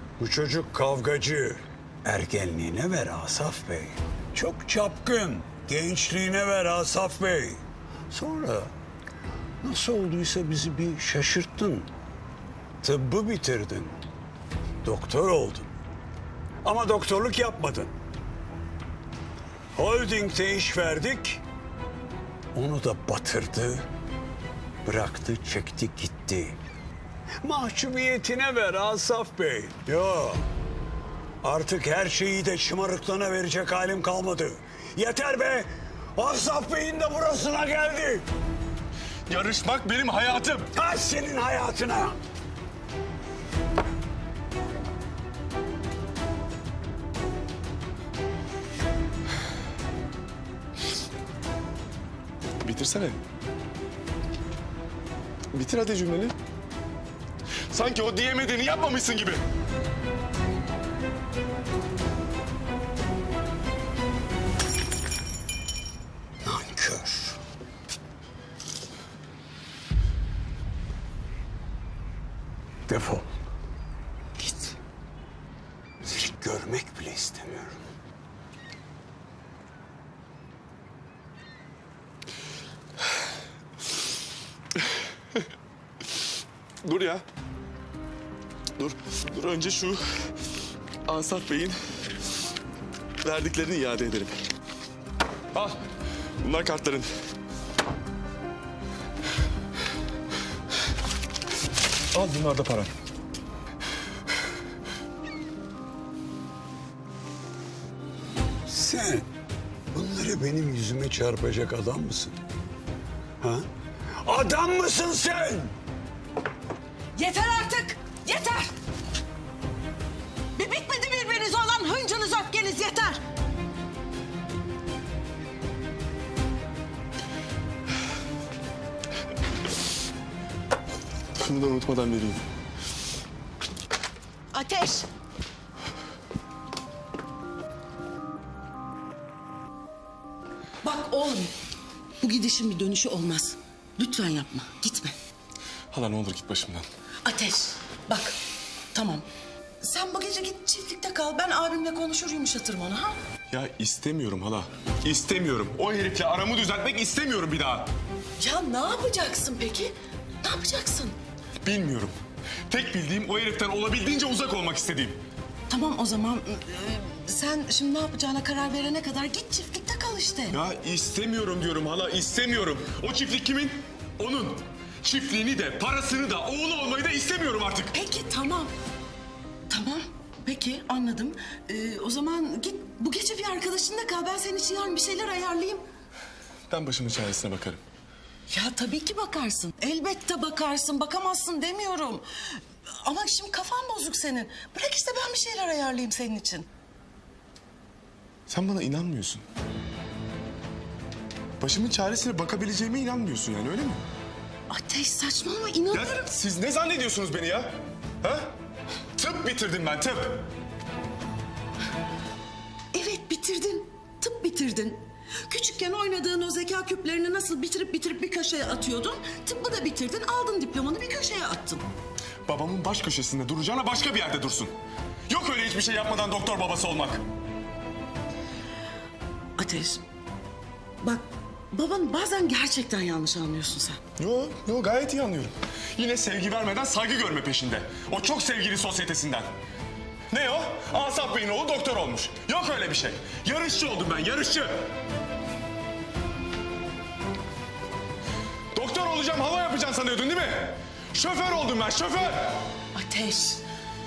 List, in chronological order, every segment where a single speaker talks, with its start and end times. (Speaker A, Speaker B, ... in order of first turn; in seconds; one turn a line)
Speaker A: 0.2-8.7
Speaker A: 9.6-11.9
Speaker A: 12.8-14.0
Speaker A: 14.8-15.7
Speaker A: 16.6-17.9
Speaker A: 19.7-21.4
Speaker A: 22.5-23.8
Speaker A: 24.8-26.6
Speaker A: 27.4-30.4
Speaker A: 31.4-38.2
Speaker B: 39.3-40.7
Speaker A: 40.7-42.2
Speaker B: 52.6-53.2
Speaker B: 55.5-56.3
Speaker B: 57.7-59.4
Speaker A: 66.4-67.4
Speaker A: 72.9-73.2
Speaker A: 74.4-74.7
Speaker A: 76.0-77.8
Speaker B: 86.8-87.2
Speaker B: 88.8-90.0
Speaker B: 91.0-91.8
Speaker B: 93.2-94.4
Speaker B: 95.5-95.8
Speaker B: 96.4-97.1
Speaker B: 102.1-102.9
Speaker A: 108.7-109.3
Speaker A: 109.9-112.3
Speaker A: 113.4-113.7
Speaker A: 114.2-115.7
Speaker C: 117.1-118.7
Speaker C: 120.5-123.2
Speaker B: 131.4-132.4
Speaker C: 134.5-135.1
Speaker C: 140.8-141.5
Speaker C: 142.2-145.2
Speaker B: 145.9-146.8
Speaker C: 147.2-148.4
Speaker C: 148.9-149.2
Speaker C: 149.8-153.2
Speaker B: 153.5-157.9
Speaker C: 158.4-161.2
Speaker B: 161.6-162.2
Speaker B: 162.7-165.2
Speaker C: 165.7-170.6
Speaker B: 170.5-177.9
Speaker C: 177.9-178.7
Speaker C: 179.7-185.8
Speaker B: 186.7-187.8
Speaker C: 188.5-192.2
Speaker C: 193.0-196.7
Speaker B: 198.5-199.4
Speaker B: 201.6-204.0
Speaker C: 204.7-206.3
Speaker B: 205.9-207.7
Speaker B: 208.2-208.5
Speaker B: 209.2-210.5
Speaker C: 212.9-221.8
Speaker B: 222.4-224.7
Speaker B: 225.3-227.2
Speaker C: 229.6-230.0
Speaker C: 231.0-234.0
Speaker B: 234.2-239.5
Speaker B: 240.3-244.9
Speaker B: 248.7-252.6
Speaker C: 252.9-253.6